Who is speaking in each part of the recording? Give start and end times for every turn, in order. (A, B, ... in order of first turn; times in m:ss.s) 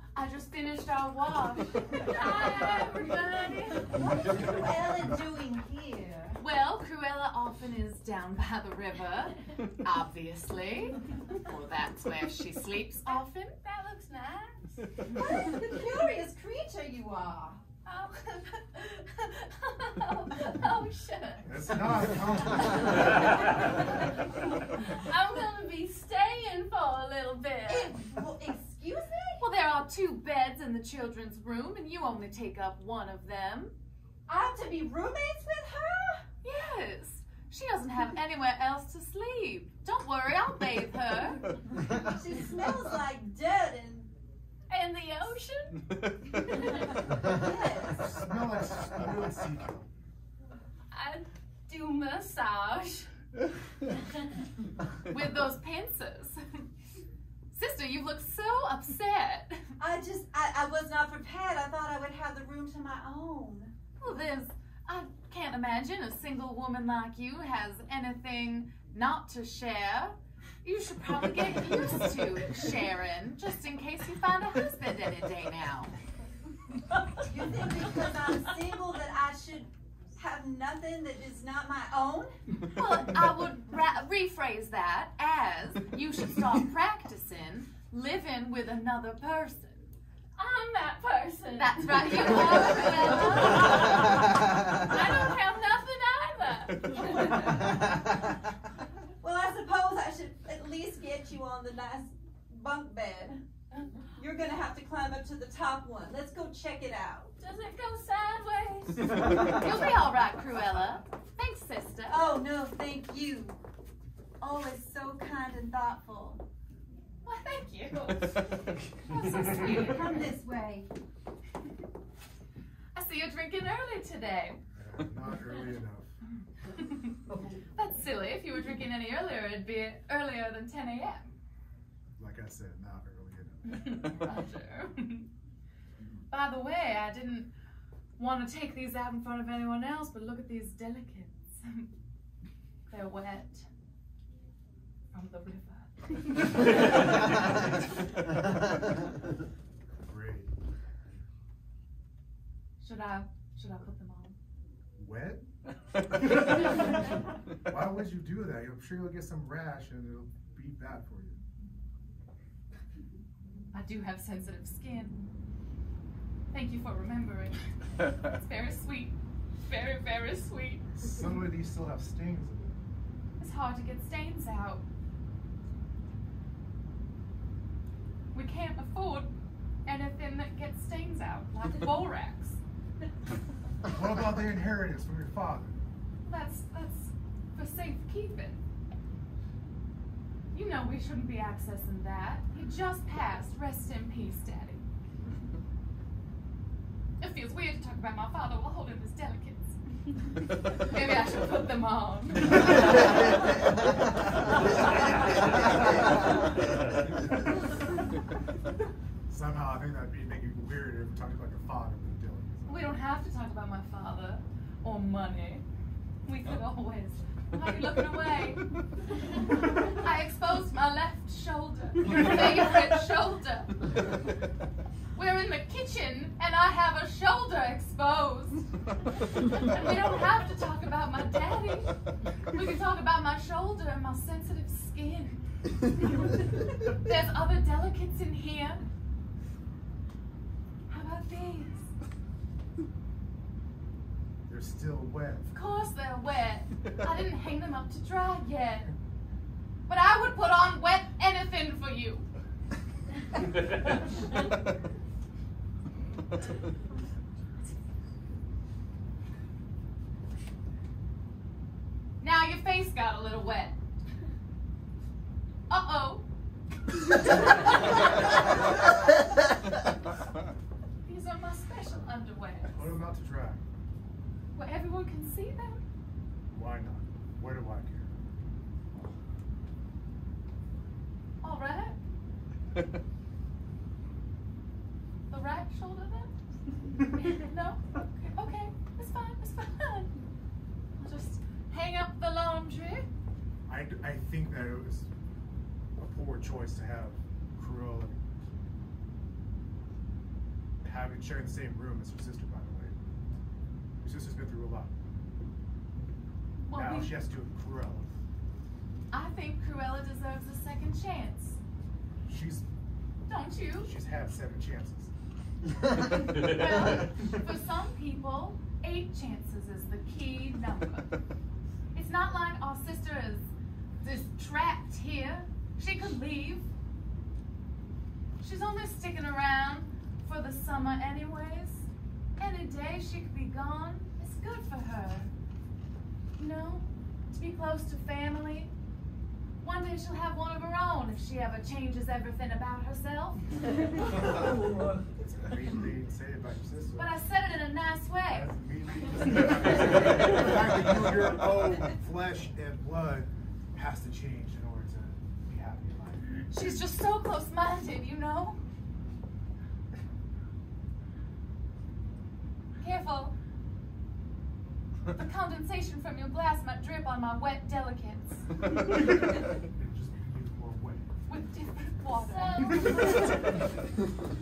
0:00.2-0:02.9 A
0:01.9-0:04.0 B
0:03.8-0:06.4 C
0:06.4-0:13.6 A
0:13.1-0:14.8 B
0:15.0-0:17.6 C
0:17.9-0:21.5 B
0:21.4-0:23.4 D
0:24.7-0:28.1 B
0:27.7-0:29.4 C
0:29.4-0:33.8 A
0:34.3-0:36.3 C
0:36.4-0:41.6 A
0:41.9-0:44.1 C
0:44.7-0:46.8 B
0:46.8-0:48.2 C
0:48.0-0:49.9 D
0:50.9-0:53.1 B
0:55.1-0:56.7 A
0:57.5-0:59.7 A
0:59.8-1:03.7 C
1:04.0-1:16.0 A
1:17.2-1:22.4 C
1:22.7-1:29.9 A
1:30.4-1:37.4 B
1:31.6-1:33.8 A
1:39.2-1:43.5 C
1:44.1-1:47.4 C
1:47.4-1:49.1 B
1:49.4-1:52.2 A
1:52.1-1:53.6 C
1:54.4-1:56.4 C
1:57.2-2:00.3 A
1:59.5-2:00.9 C
2:03.0-2:04.6 A
2:04.8-2:06.2 D
2:06.8-2:07.2 A
2:07.8-2:11.4 A
2:12.2-2:14.1 D
2:13.7-2:15.3 A
2:16.3-2:17.5 A
2:18.2-2:21.9 A
2:22.9-2:23.7 A
2:25.1-2:26.8 A
2:30.0-2:30.6 D
2:32.8-2:34.4 A
2:35.0-2:35.5 D
2:36.1-2:37.0 D
2:37.6-2:41.4 D
2:43.7-2:45.2 A
2:46.5-2:51.0 A
2:50.9-2:52.8 D
2:53.4-2:54.8 A
2:58.3-2:59.3 A
2:59.9-3:02.6 A
3:03.8-3:05.8 D
3:06.2-3:08.6 A
3:10.5-3:14.9 A
3:17.2-3:23.4 A
3:29.3-3:32.9 D
3:32.7-3:35.6 A
3:36.2-3:38.7 A
3:39.7-3:44.2 A
3:45.2-3:48.7 A
3:49.2-3:55.4 A
3:56.0-3:58.8 A
4:00.9-4:01.9 A
4:04.5-4:05.5 D
4:05.5-4:09.0 A
4:09.9-4:12.3 A
4:22.2-4:23.8 A
4:25.7-4:26.3 A
4:31.0-4:33.0 A
4:32.7-4:33.6 D
4:34.6-4:35.8 A
4:36.5-4:38.2 D
4:41.4-4:42.0 A
4:45.3-4:46.3 A
4:47.1-4:50.2 A
4:51.0-4:53.1 A
4:53.7-4:55.1 D
4:56.0-4:58.3 D
5:00.8-5:03.0 D
5:04.0-5:04.9 D
5:06.6-5:07.1 A
5:06.7-5:08.1 D
5:09.1-5:11.6 A
5:12.2-5:12.7 D
5:13.3-5:13.9 A
5:13.8-5:15.1 D
5:16.2-5:21.2 A
5:21.9-5:23.5 A
5:24.0-5:26.7 A
5:28.4-5:31.9 A
5:32.4-5:35.3 A
5:36.4-5:38.7 A
5:39.6-5:43.6 A
5:44.2-5:47.2 D
5:47.0-5:48.5 A
5:48.3-5:56.4 D
5:56.5-5:58.6 A
6:02.8-6:03.4 A
6:05.1-6:08.5 A
6:09.6-6:11.1 D
6:11.3-6:13.3 A
6:12.2-6:13.8 B